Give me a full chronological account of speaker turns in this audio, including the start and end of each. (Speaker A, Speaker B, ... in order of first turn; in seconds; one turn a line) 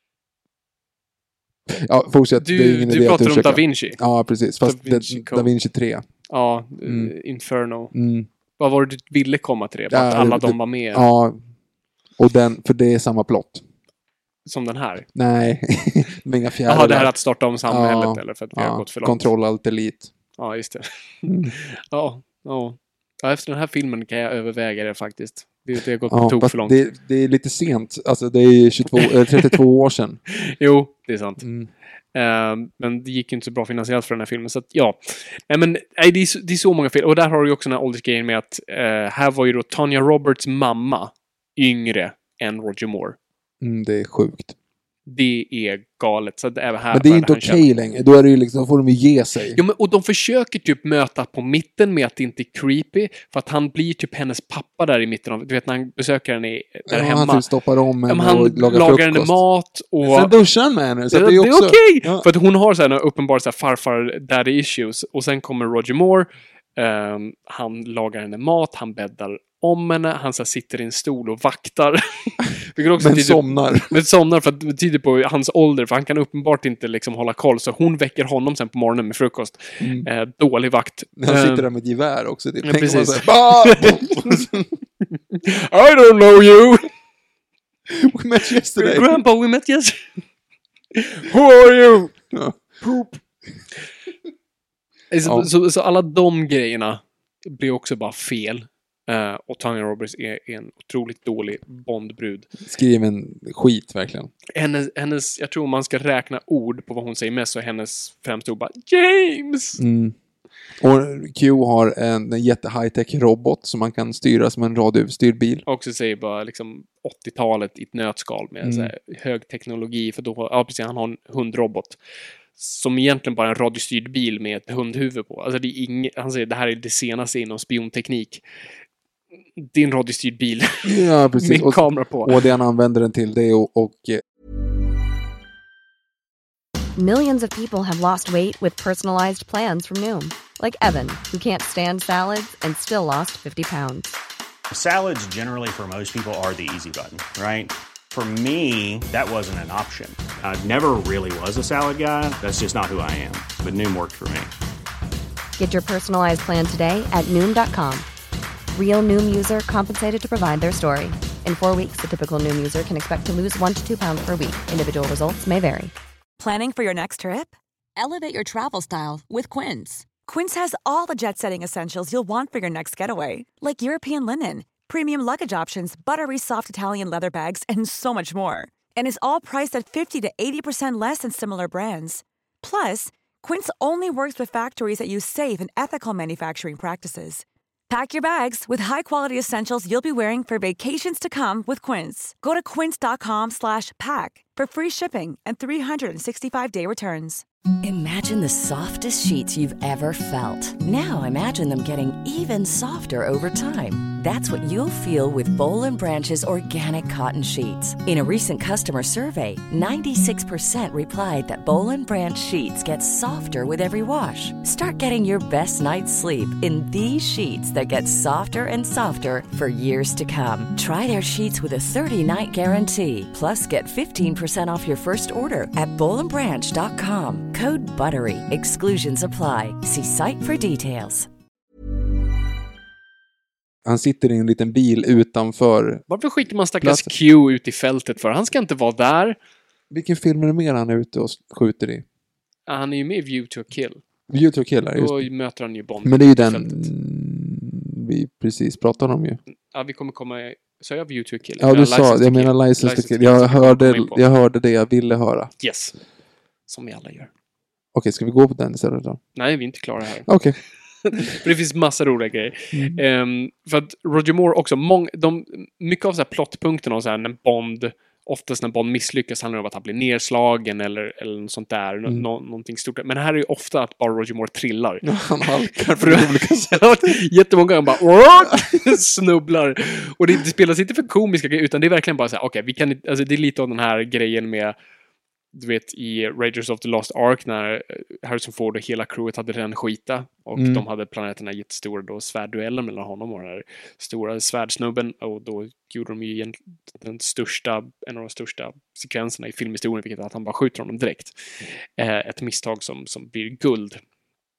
Speaker A: 1.7-6.0
Speaker B: 2.4-4.0
Speaker B: 4.6-5.5
Speaker B: 6.3-7.9
Speaker A: 6.8-7.1
Speaker A: 7.9-8.3
Speaker B: 8.6-11.1
Speaker A: 9.9-11.4
Speaker A: 12.2-13.6
Speaker B: 14.5-15.1
Speaker A: 15.2-17.1
Speaker B: 16.7-19.3
Speaker A: 17.7-20.1
Speaker B: 20.4-26.8
Speaker A: 21.3-21.6
Speaker A: 26.1-30.2
Speaker B: 29.0-29.6
Speaker B: 30.3-31.4
Speaker A: 31.4-31.7
Speaker B: 32.1-43.2
Speaker A: 43.6-44.5
Speaker B: 45.1-47.6
Speaker A: 46.9-49.6
Speaker B: 49.5-57.5
Speaker A: 56.9-59.4
Speaker B: 58.1-60.3
Speaker A: 60.0-62.3
Speaker B: 61.1-81.7
Speaker A: 73.0-74.0
Speaker A: 79.8-80.1
Speaker A: 81.2-84.7
Speaker B: 82.6-84.5
Speaker B: 85.3-86.8
Speaker A: 87.9-89.2
Speaker B: 88.7-90.1
Speaker B: 91.0-92.1
Speaker A: 92.3-93.0
Speaker B: 95.1-102.5
Speaker A: 95.2-95.5
Speaker A: 102.6-104.3
Speaker B: 104.5-109.8
Speaker A: 109.8-110.2
Speaker A: 110.8-115.6
Speaker B: 115.7-122.0
Speaker A: 118.6-118.9
Speaker B: 122.6-128.4
Speaker B: 129.6-132.4
Speaker A: 130.8-134.2
Speaker C: 137.0-144.2
Speaker D: 144.7-154.5
Speaker C: 155.6-158.1
Speaker C: 158.7-165.9
Speaker E: 166.4-197.4
Speaker F: 197.8-231.3
Speaker A: 233.8-236.0
Speaker B: 236.1-239.4
Speaker A: 236.8-237.1
Speaker A: 239.9-242.1
Speaker B: 242.7-244.0
Speaker A: 244.3-245.3
Speaker B: 245.0-246.9
Speaker A: 246.0-249.4
Speaker B: 249.7-254.2
Speaker A: 251.6-255.5
Speaker B: 255.6-256.0
Speaker B: 256.7-257.3
Speaker A: 257.9-259.2
Speaker B: 259.4-260.3
Speaker A: 260.3-260.6
Speaker B: 261.1-275.2
Speaker A: 262.7-263.0
Speaker A: 275.0-277.2
Speaker B: 276.0-284.8
Speaker B: 285.5-301.3
Speaker A: 290.6-290.9
Speaker B: 302.0-304.0